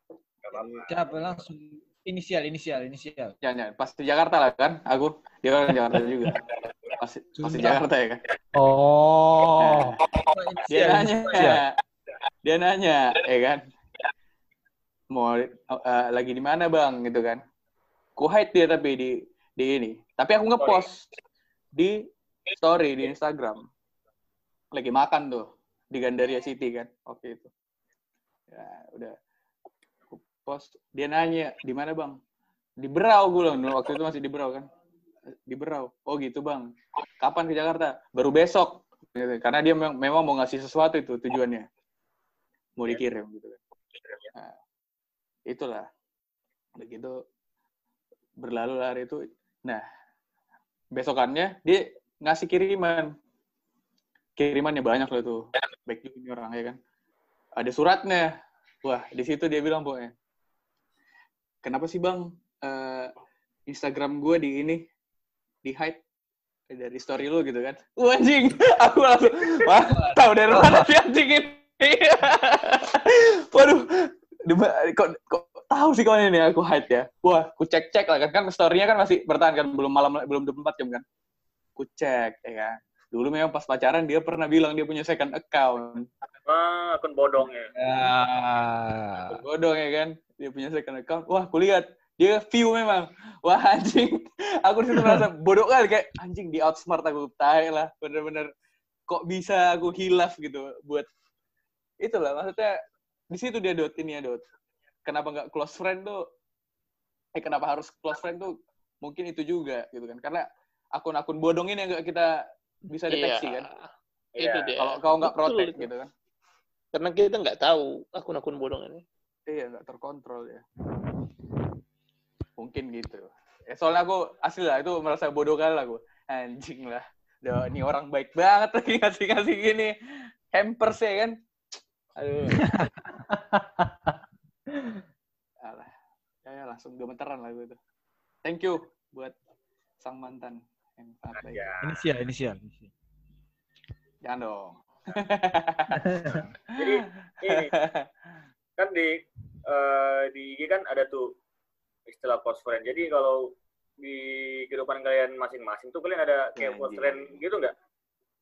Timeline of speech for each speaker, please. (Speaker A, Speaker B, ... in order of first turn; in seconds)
Speaker A: 0.5-0.9, 20.6-20.9, 86.5-87.7, 114.4-114.7, 141.4-141.9, 146.8-147.7, 148.8-151.3, 152.1-157.7
Speaker B: 0.5-0.9, 3.4-8.2, 9.6-10.0, 10.7-11.7, 12.4-13.7, 15.1-17.4, 18.2-21.1, 21.8-22.1, 22.6-23.7, 24.7-27.5, 28.5-29.1, 30.1-32.2, 32.8-34.7, 35.5-41.7, 42.8-43.6, 45.5-45.9, 46.8-47.2, 48.4-49.8, 50.9-53.1, 54.4-56.8, 57.6-58.3, 58.8-60.1, 61.6-63.1, 63.7-64.8, 65.6-66.0, 66.7-81.0, 81.8-86.1, 89.3-98.5, 99.1-101.1, 102.0-102.8, 103.3-104.4, 105.1-106.2, 107.3-112.3, 112.9-113.7, 114.8-116.1, 119.5-120.6, 122.6-129.9, 130.5-131.4, 132.2-132.8, 135.6-135.9, 136.4-137.8, 138.4-139.3, 140.0-141.7, 144.2-146.0, 146.7-148.1, 156.6-157.3
Speaker C: 0.9-3.4, 7.4-7.8, 10.1-11.6, 70.5-70.9, 87.8-89.4, 132.6-132.9, 141.8-142.9, 146.1-146.5
Speaker D: 8.6-10.0, 133.3-133.9
Speaker E: 113.1-113.9, 114.4-115.9, 116.9-119.0